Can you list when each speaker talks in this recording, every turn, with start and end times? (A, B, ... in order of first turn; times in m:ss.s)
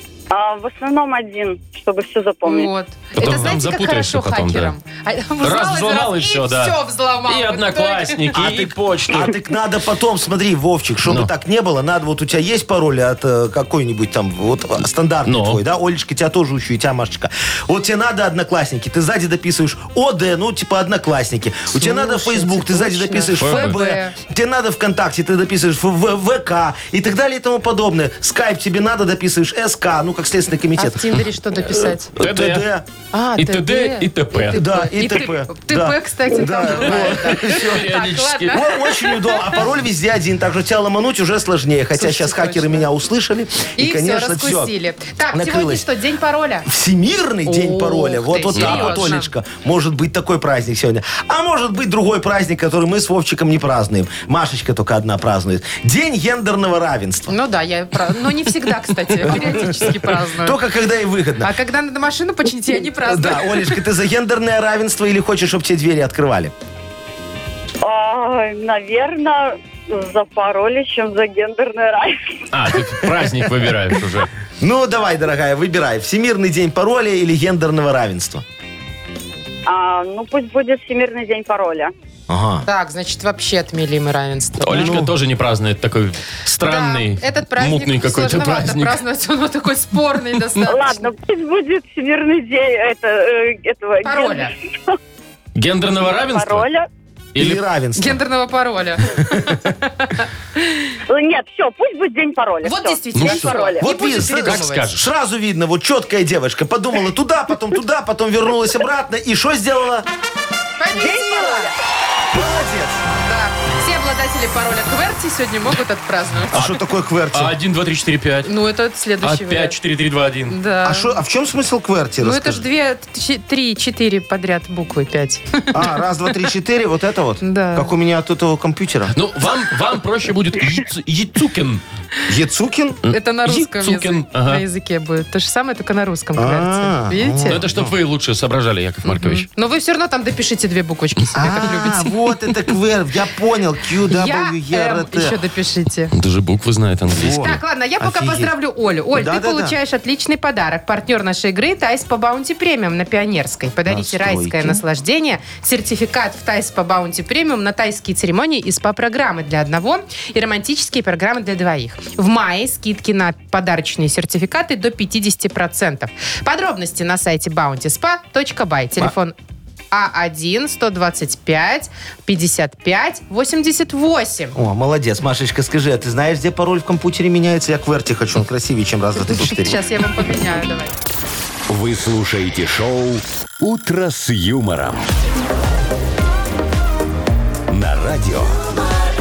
0:00.3-0:02.7 A
0:02.4-0:08.4 B
0:03.2-0:04.8 C
0:05.4-0:09.4 C
0:08.3-0:31.2 D
0:11.1-0:11.3 C
0:15.3-0:15.6 C
0:21.7-0:24.2 B
0:23.4-0:23.8 C
0:30.8-0:32.1 B
0:32.2-0:32.7 C
0:32.2-0:32.9 D
0:33.1-0:39.7 B
0:33.4-0:34.6 C
0:34.4-0:38.0 D
0:36.8-0:38.6 C
0:38.5-0:44.7 D
0:42.0-0:42.9 B
0:43.8-0:46.7 B
0:45.3-0:45.9 D
0:46.6-0:57.3 D
0:47.5-0:49.3 B
0:48.6-0:49.1 C
0:57.3-1:00.6 B
0:59.2-1:01.5 D
1:01.4-1:03.8 B
1:03.0-1:06.5 D
1:07.8-1:12.4 A
1:12.5-1:14.3 C
1:14.6-1:18.4 D
1:19.7-1:21.9 A
1:22.3-1:22.6 D
1:22.7-1:25.0 B
1:24.6-1:29.0 C
1:24.7-1:25.1 D
1:26.6-1:31.1 B
1:30.6-1:35.0 A
1:34.0-1:34.5 B
1:35.6-1:36.7 C
1:36.2-1:36.9 A
1:37.3-1:37.6 C
1:37.4-1:38.2 D
1:38.0-1:40.9 B
1:41.1-1:43.9 A
1:42.6-1:44.8 B
1:43.1-1:43.4 C
1:43.3-1:50.1 D
1:44.4-1:45.1 C
1:50.8-1:51.7 B
1:50.9-1:51.7 A
1:52.3-1:53.0 D
1:53.2-1:56.8 B
1:56.5-1:57.6 D
1:57.3-1:58.5 C
1:58.4-1:59.8 B
1:59.2-2:00.6 C
2:00.5-2:01.2 B
2:00.8-2:02.6 D
2:02.2-2:06.5 B
2:05.7-2:09.2 D
2:07.4-2:07.9 B
2:09.1-2:11.8 C
2:12.3-2:13.0 D
2:13.0-2:14.6 C
2:13.1-2:17.6 B
2:16.4-2:17.9 D
2:17.5-2:19.5 C
2:19.0-2:22.2 B
2:21.4-2:25.4 D
2:24.1-2:26.1 B
2:26.1-2:27.6 C
2:27.1-2:28.5 D
2:27.4-2:49.4 B
2:29.1-2:29.8 D
2:33.9-2:34.8 D
2:49.9-2:54.6 B
2:54.6-2:59.8 D
2:59.2-3:01.0 B
3:01.7-3:05.1 E
3:07.7-3:08.6 E